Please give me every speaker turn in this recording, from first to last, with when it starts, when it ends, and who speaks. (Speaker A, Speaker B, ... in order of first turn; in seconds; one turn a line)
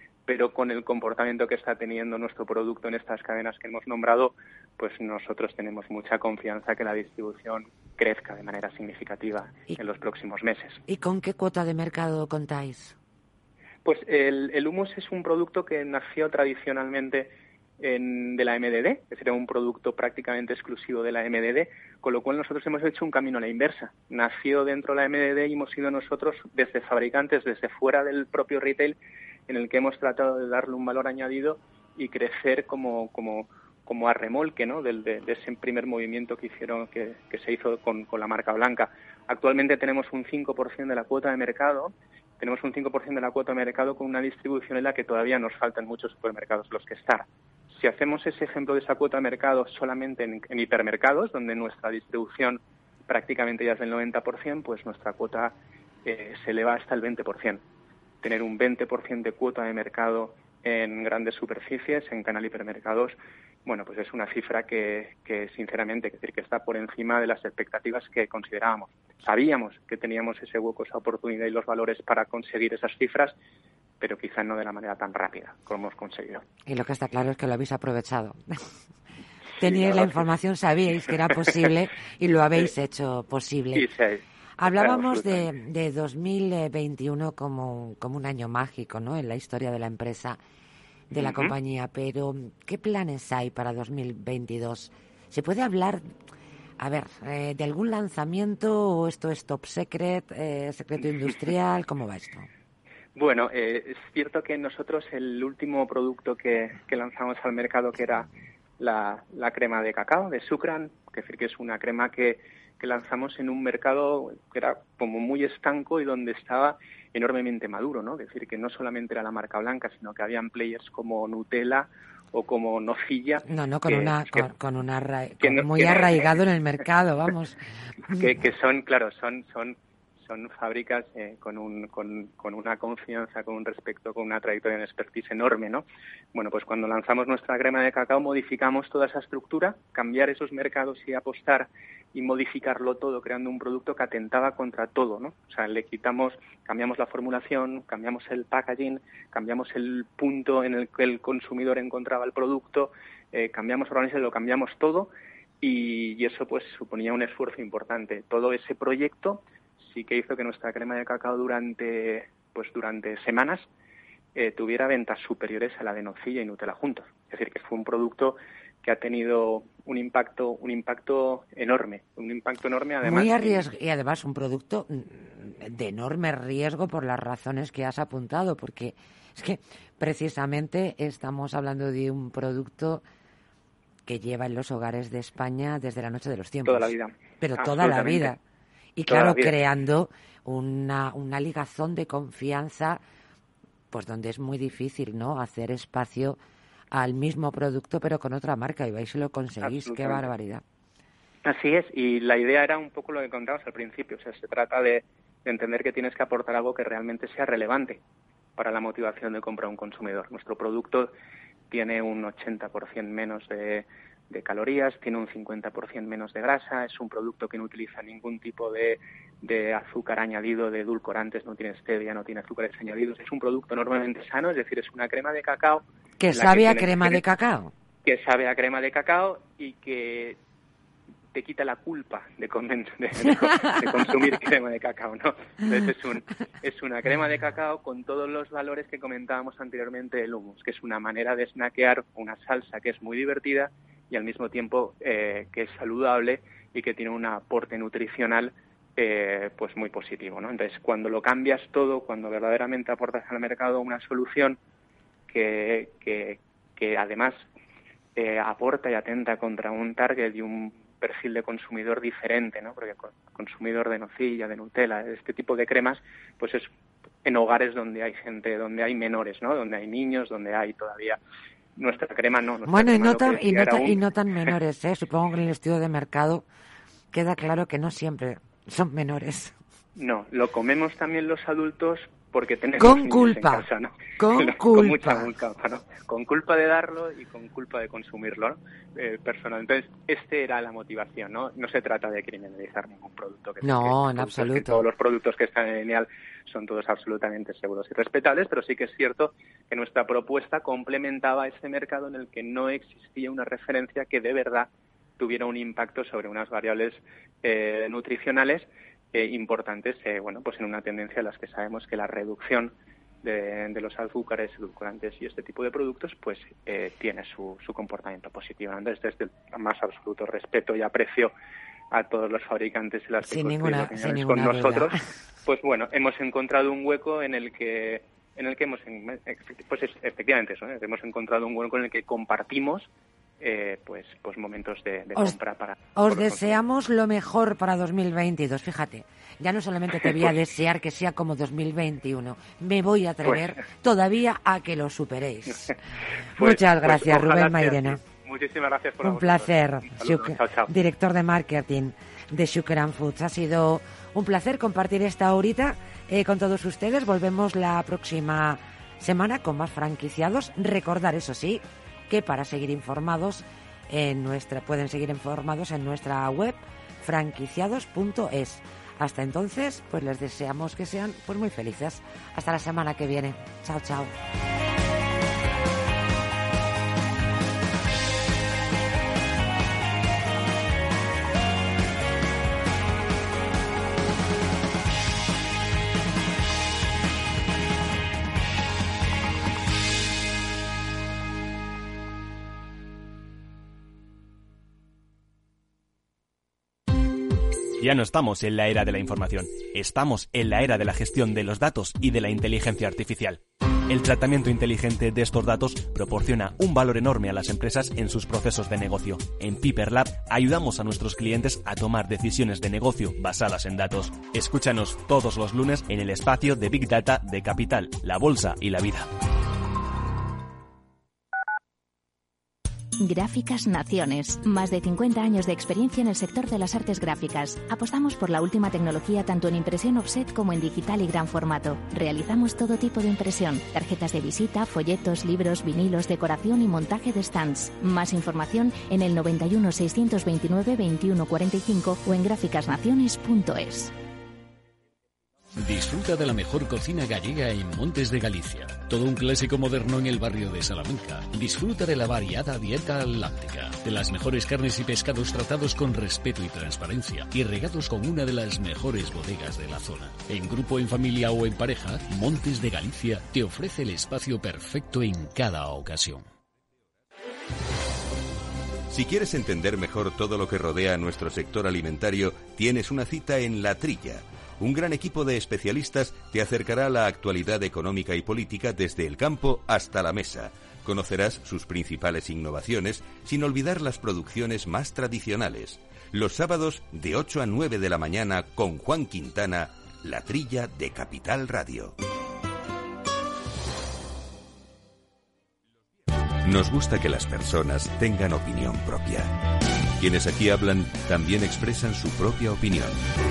Speaker A: 0.2-10.8
Speaker B: 10.9-12.9
Speaker A: 13.8-29.0
Speaker A: 29.5-57.6
Speaker A: 58.2-73.3
Speaker A: 74.0-76.4
Speaker B: 76.7-78.6
Speaker B: 79.6-83.9
Speaker A: 79.6-80.2
Speaker A: 83.7-85.5
Speaker B: 84.6-90.4
Speaker B: 91.1-96.0
Speaker A: 91.2-91.5
Speaker B: 96.8-102.5
Speaker A: 103.1-124.5
Speaker B: 123.4-127.6
Speaker A: 125.4-126.3
Speaker A: 128.1-163.7
Speaker A: 164.3-173.7
Speaker B: 173.0-183.0
Speaker B: 184.0-188.4
Speaker A: 186.6-188.3
Speaker B: 188.9-193.0
Speaker A: 189.1-189.5
Speaker B: 193.9-196.4
Speaker B: 196.9-200.6
Speaker A: 199.6-200.2
Speaker A: 201.4-208.0
Speaker A: 208.6-211.1
Speaker A: 211.7-227.2
Speaker B: 226.2-227.7
Speaker A: 228.0-230.4
Speaker A: 231.3-254.6
Speaker A: 255.3-257.4
Speaker A: 258.1-266.7
Speaker A: 267.2-271.2
Speaker A: 271.8-274.5
Speaker B: 272.6-276.4
Speaker B: 277.1-279.6
Speaker A: 279.9-321.3
Speaker B: 282.8-283.7
Speaker B: 284.2-285.3
Speaker B: 293.6-294.9
Speaker A: 321.9-332.9
Speaker B: 323.2-324.9
Speaker A: 333.4-336.6
Speaker B: 335.9-345.7
Speaker A: 343.2-343.5
Speaker B: 346.4-348.0
Speaker A: 346.4-350.7
Speaker B: 349.0-374.1
Speaker C: 397.8-419.1
Speaker D: 423.0-443.9
Speaker E: 445.6-466.2
Speaker F: 468.9-491.9
Speaker F: 496.4-499.3
Speaker F: 500.0-503.0